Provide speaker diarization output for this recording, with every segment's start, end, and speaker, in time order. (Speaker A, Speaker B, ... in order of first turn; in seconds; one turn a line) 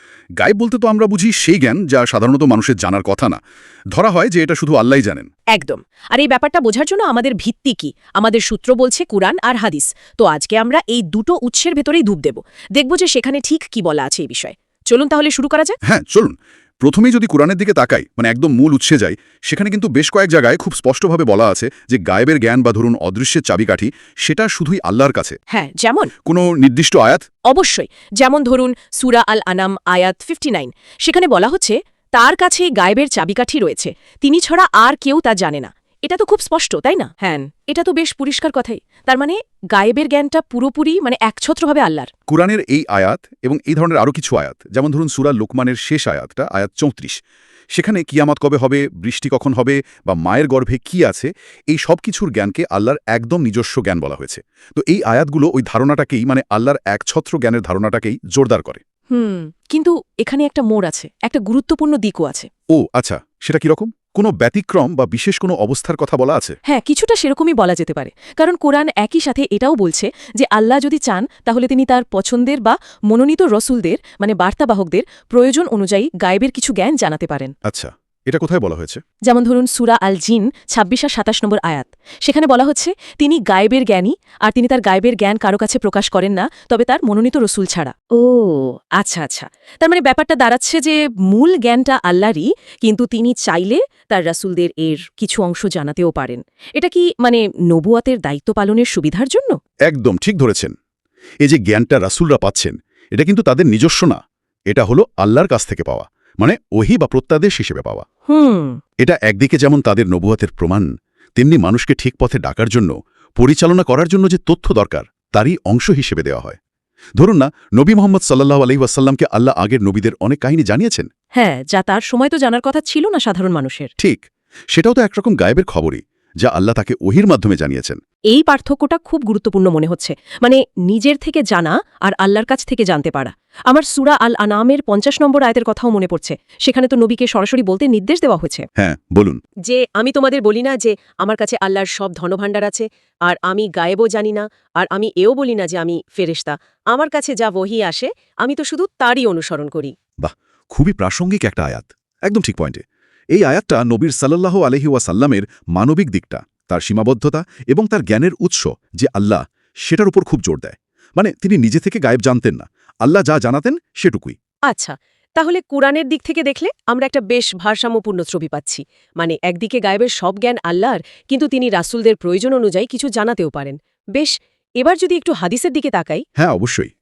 Speaker A: 0.4-3.4
Speaker A: 3.9-5.3
Speaker B: 5.5-15.8
Speaker A: 15.8-25.4
Speaker B: 25.5-26.1
Speaker A: 26.2-27.2
Speaker B: 27.5-42.1
Speaker A: 42.3-47.1
Speaker A: 47.7-58.8
Speaker B: 59.1-62.5
Speaker A: 62.7-66.5
Speaker B: 66.7-77.5
Speaker A: 77.6-79.0
Speaker B: 79.2-99.6
Speaker A: 99.9-100.7
Speaker A: 101.4-104.2
Speaker A: 104.7-108.0
Speaker B: 108.3-108.8
Speaker A: 109.0-116.6
Speaker A: 117.2-121.1
Speaker B: 121.3-123.9
Speaker A: 124.0-128.0
Speaker B: 128.3-138.7
Speaker A: 138.8-139.4
Speaker B: 139.6-149.9
Speaker A: 150.2-164.3
Speaker B: 164.7-176.2
Speaker A: 176.4-176.9